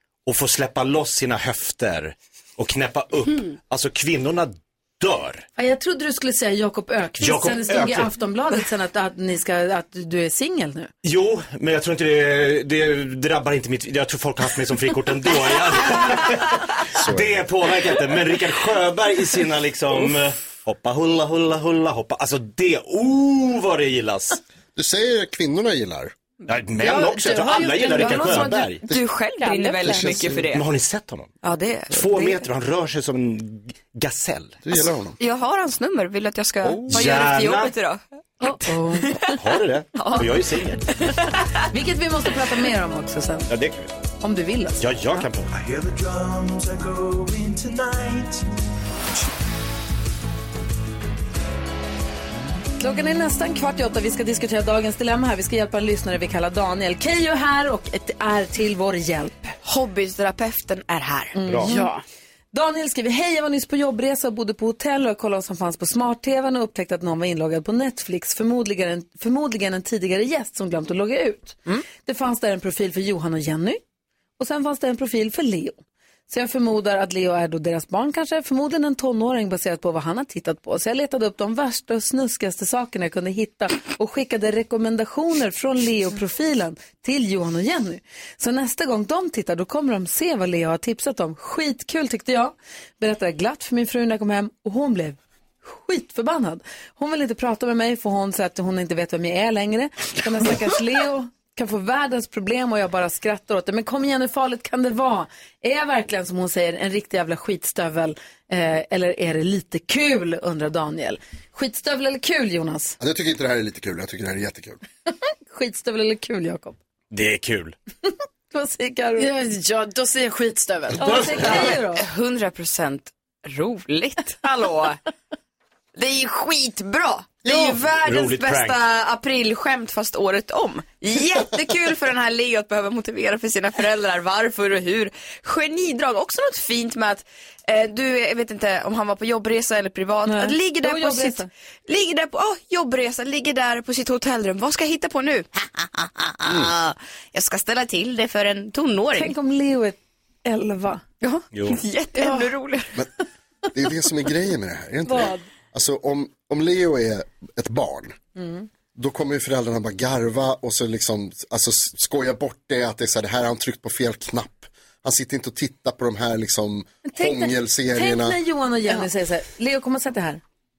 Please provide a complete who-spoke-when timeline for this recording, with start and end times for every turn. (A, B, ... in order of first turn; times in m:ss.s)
0:00.3-0:05.4 A
0:05.6-0:10.9 B
0:07.2-0:08.1 A
0:11.0-0:24.4 A
0:16.9-0:17.5 C
0:24.8-0:26.1 C
0:26.5-0:28.8 A
0:26.8-0:28.7 D
0:27.7-0:30.6 E
0:29.4-0:29.8 D
0:29.8-0:30.5 C
0:30.0-0:31.3 A
0:31.4-0:32.5 E
0:31.9-0:34.8 A
0:34.6-0:35.2 C
0:35.2-0:39.4 E
0:36.6-0:37.7 A
0:36.8-0:37.0 C
0:38.4-0:39.3 B
0:39.4-0:40.8 A
0:40.0-0:41.5 E
0:41.7-0:43.5 B
0:43.5-0:44.0 A
0:44.2-0:45.2 B
0:44.8-0:45.6 A
0:52.8-0:59.5 B
0:59.6-1:01.4 E
1:01.4-1:01.9 B
1:01.4-1:01.7 A
1:01.7-1:02.0 D
1:02.5-1:13.8 B
1:14.4-1:53.0 B
1:53.0-1:54.8 C
1:55.5-1:56.8 B
1:57.1-1:57.8 A
1:58.5-1:59.3 B
1:59.2-2:01.5 D
2:01.0-2:02.0 B
2:01.0-2:01.8 A
2:01.5-2:05.0 E
2:06.0-2:29.3 E
2:07.4-2:08.8 A
2:20.3-2:21.5 B
2:26.5-2:26.7 C
2:29.1-2:31.0 B
2:31.2-2:32.9 E
2:31.5-2:31.8 A
2:32.2-2:32.5 D
2:33.7-2:38.2 C
2:35.1-2:35.4 B
2:38.4-2:38.7 B
2:39.0-2:48.4 C
2:47.1-2:50.4 B